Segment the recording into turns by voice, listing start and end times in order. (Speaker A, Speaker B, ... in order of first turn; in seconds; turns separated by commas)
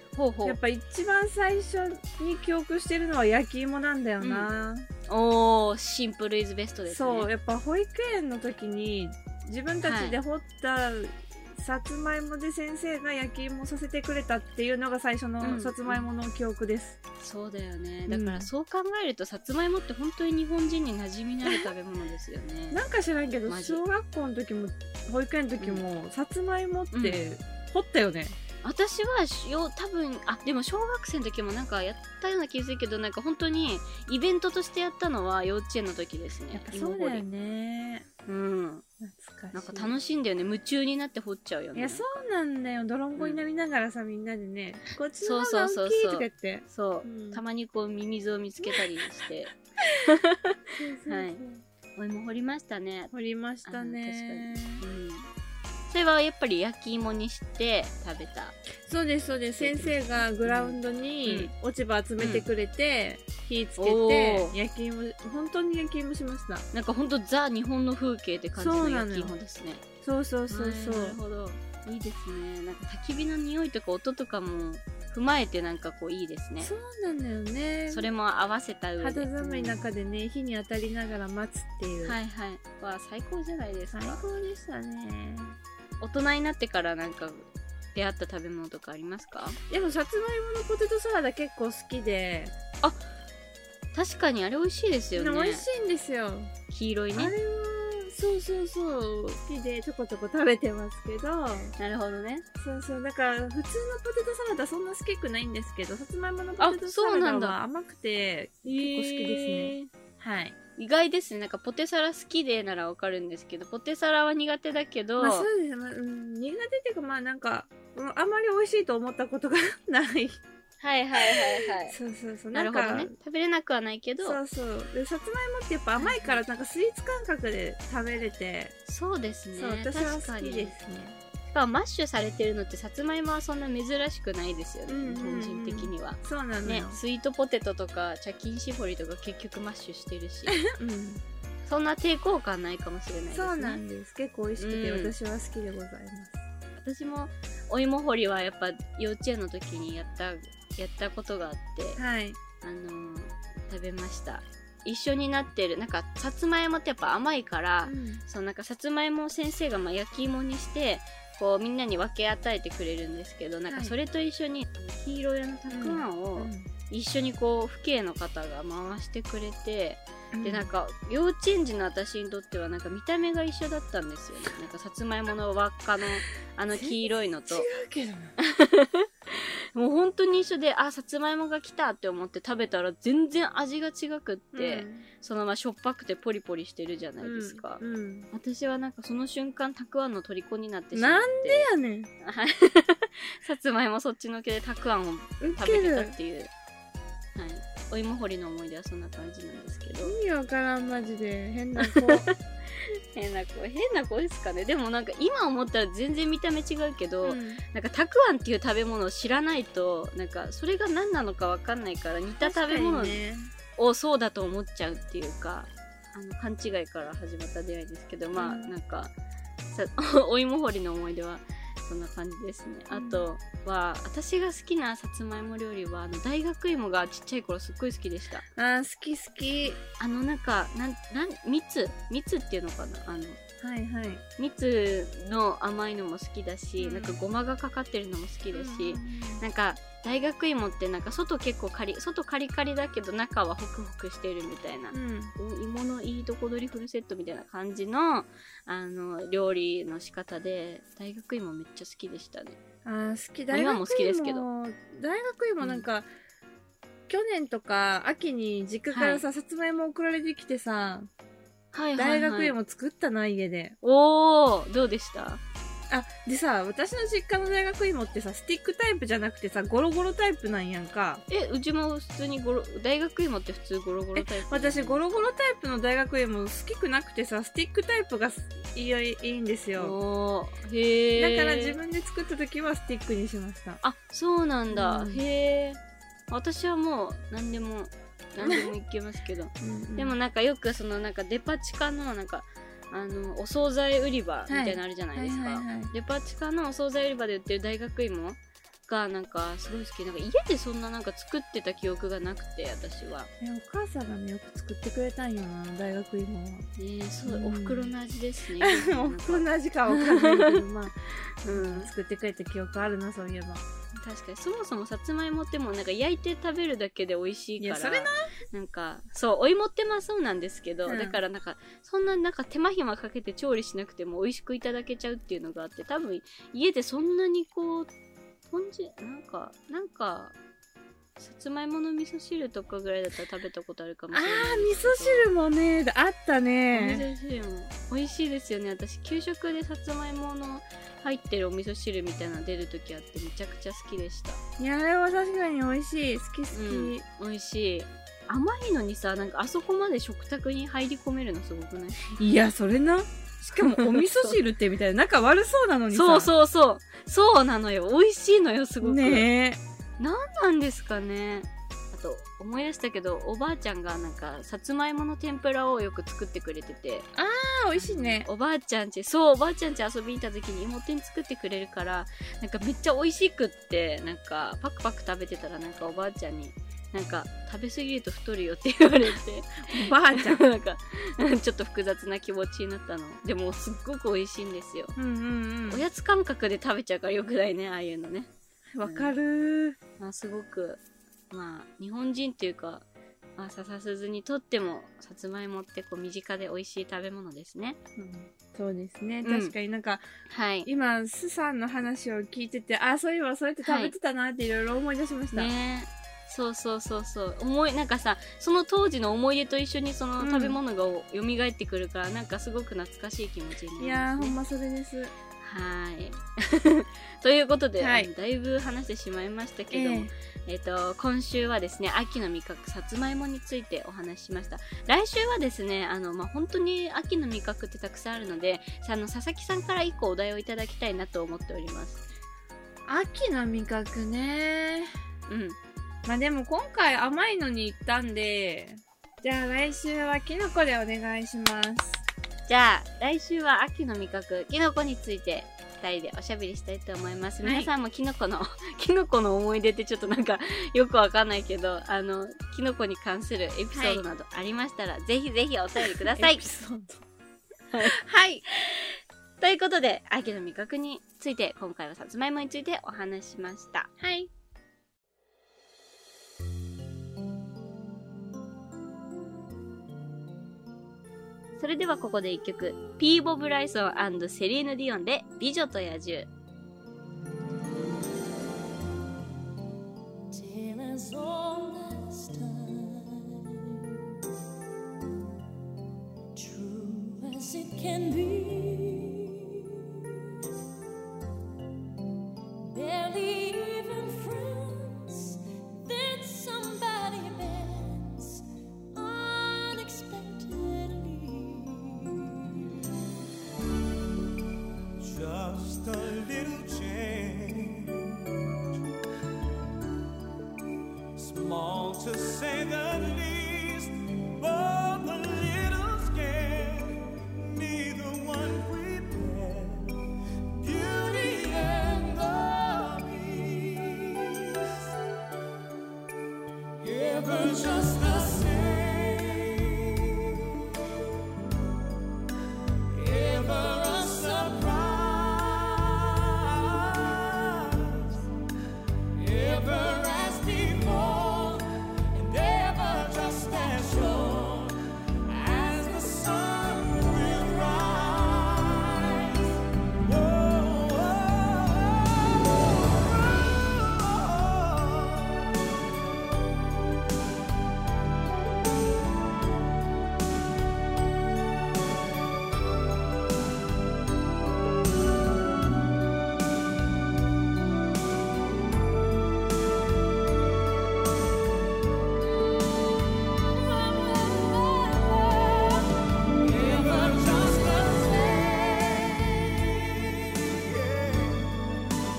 Speaker A: 0.1-0.6, Speaker B: 0.5-4.9, Speaker A: 4.2-4.5, Speaker A: 5.1-7.3, Speaker B: 6.9-17.0, Speaker A: 9.8-10.2, Speaker A: 15.4-16.1, Speaker A: 17.2-22.8, Speaker B: 18.1-18.5, Speaker B: 22.7-28.4, Speaker A: 23.5-23.8, Speaker A: 26.9-27.2, Speaker A: 28.6-37.2, Speaker B: 36.5-38.1, Speaker A: 38.3-38.9, Speaker B: 39.0-39.9, Speaker A: 39.5-42.2, Speaker B: 41.8-47.4, Speaker A: 43.2-43.4, Speaker A: 45.2-51.4, Speaker B: 50.8-51.6, Speaker A: 52.0-53.1, Speaker B: 53.1-54.8, Speaker A: 53.6-55.3, Speaker A: 55.9-58.6, Speaker B: 58.9-66.7, Speaker A: 59.6-61.5, Speaker A: 62.2-62.5, Speaker A: 63.8-64.5, Speaker A: 66.7-69.8, Speaker B: 68.6-69.3, Speaker B: 70.0-71.2, Speaker A: 70.5-76.7, Speaker B: 76.6-78.1, Speaker A: 77.9-79.8, Speaker B: 79.0-82.2, Speaker A: 82.0-84.2, Speaker B: 83.9-85.6, Speaker A: 86.0-89.6, Speaker B: 89.7-92.5, Speaker A: 93.9-95.7, Speaker B: 95.2-96.5, Speaker A: 96.7-97.3, Speaker B: 97.2-101.7, Speaker A: 101.8-102.5, Speaker B: 102.6-110.6, Speaker A: 106.6-107.6, Speaker A: 108.7-109.9, Speaker A: 110.8-115.5, Speaker B: 115.2-120.4, Speaker A: 120.8-122.0, Speaker B: 121.2-123.1, Speaker A: 122.5-124.4, Speaker B: 124.2-128.8, Speaker A: 126.0-126.4, Speaker A: 128.9-130.8, Speaker B: 129.5-131.2, Speaker A: 131.5-140.6, Speaker B: 134.9-137.0, Speaker B: 140.6-141.2, Speaker A: 141.7-143.8, Speaker B: 143.3-146.4, Speaker A: 144.6-145.1, Speaker A: 146.8-152.0, Speaker B: 152.0-152.4, Speaker A: 152.6-177.7, Speaker B: 157.8-158.2, Speaker B: 163.7-163.9, Speaker B: 165.7-166.7, Speaker B: 170.3-170.7, Speaker B: 176.7-178.3, Speaker A: 178.4-187.8, Speaker B: 184.5-185.1, Speaker B: 187.2-188.3, Speaker A: 188.3-191.7, Speaker B: 190.9-192.1, Speaker A: 192.2-196.5, Speaker B: 195.4-196.2, Speaker A: 197.3-200.2, Speaker B: 200.1-202.3, Speaker A: 201.8-213.2, Speaker B: 207.2-207.6, Speaker B: 212.4-213.5, Speaker A: 213.8-219.1, Speaker B: 218.4-218.7, Speaker A: 219.7-228.5, Speaker B: 222.9-223.2, Speaker B: 228.6-229.8, Speaker A: 229.7-233.4, Speaker B: 233.6-234.2, Speaker A: 234.4-252.6, Speaker B: 236.8-237.2, Speaker B: 238.5-239.4, Speaker B: 244.9-245.3, Speaker B: 252.8-256.1, Speaker A: 253.5-254.4, Speaker B: 257.1-261.1, Speaker A: 258.9-259.2, Speaker A: 261.7-262.6, Speaker B: 262.0-263.8, Speaker A: 263.8-265.4, Speaker B: 265.9-271.2, Speaker A: 271.3-275.0, Speaker B: 274.1-279.9, Speaker A: 279.8-281.8, Speaker B: 281.2-283.8, Speaker A: 283.8-303.3, Speaker B: 284.7-285.2, Speaker B: 288.4-288.7, Speaker B: 289.6-290.1, Speaker B: 294.5-295.9, Speaker B: 303.4-306.7, Speaker A: 306.8-310.6, Speaker B: 307.3-307.9, Speaker B: 308.6-310.9, Speaker A: 311.4-311.9, Speaker B: 311.5-313.6, Speaker A: 314.0-327.9, Speaker B: 317.6-318.3, Speaker B: 320.9-321.2, Speaker A: 328.5-330.3, Speaker A: 331.2-335.3, Speaker B: 334.1-337.1, Speaker A: 336.7-344.4, Speaker B: 344.6-347.0, Speaker A: 346.5-352.0, Speaker B: 352.1-356.3, Speaker A: 353.6-354.4, Speaker A: 355.9-359.3, Speaker B: 358.8-359.6, Speaker A: 360.0-367.1, Speaker B: 367.1-368.3, Speaker A: 367.8-385.0, Speaker B: 379.7-380.4, Speaker B: 385.0-385.8, Speaker A: 385.7-388.3, Speaker B: 388.7-389.8, Speaker A: 388.8-389.1, Speaker A: 390.0-390.8, Speaker A: 391.3-392.9, Speaker A: 393.4-397.8, Speaker B: 398.0-400.0, Speaker A: 399.2-399.5, Speaker A: 400.3-400.7, Speaker B: 400.7-405.5, Speaker A: 403.6-403.9, Speaker A: 405.3-414.4, Speaker B: 410.2-410.6, Speaker B: 413.8-415.1, Speaker A: 415.4-432.0, Speaker B: 417.8-418.1, Speaker B: 419.7-420.1, Speaker B: 432.9-434.9, Speaker A: 435.3-435.6, Speaker B: 436.1-442.0, Speaker A: 442.5-456.4, Speaker B: 447.4-447.7, Speaker B: 453.7-454.0, Speaker B: 456.0-457.0, Speaker B: 457.8-458.4, Speaker A: 458.5-463.9, Speaker B: 464.0-464.3, Speaker A: 471.6-476.3, Speaker C: 480.3-483.9, Speaker C: 486.4-489.6, Speaker C: 492.6-502.2, Speaker D: 505.0-508.4, Speaker D: 511.1-524.9, Speaker D: 526.8-530.7, Speaker D: 532.9-538.2, Speaker D: 539.1-555.5, Speaker D: 574.4-575.9, Speaker D: 576.4-581.5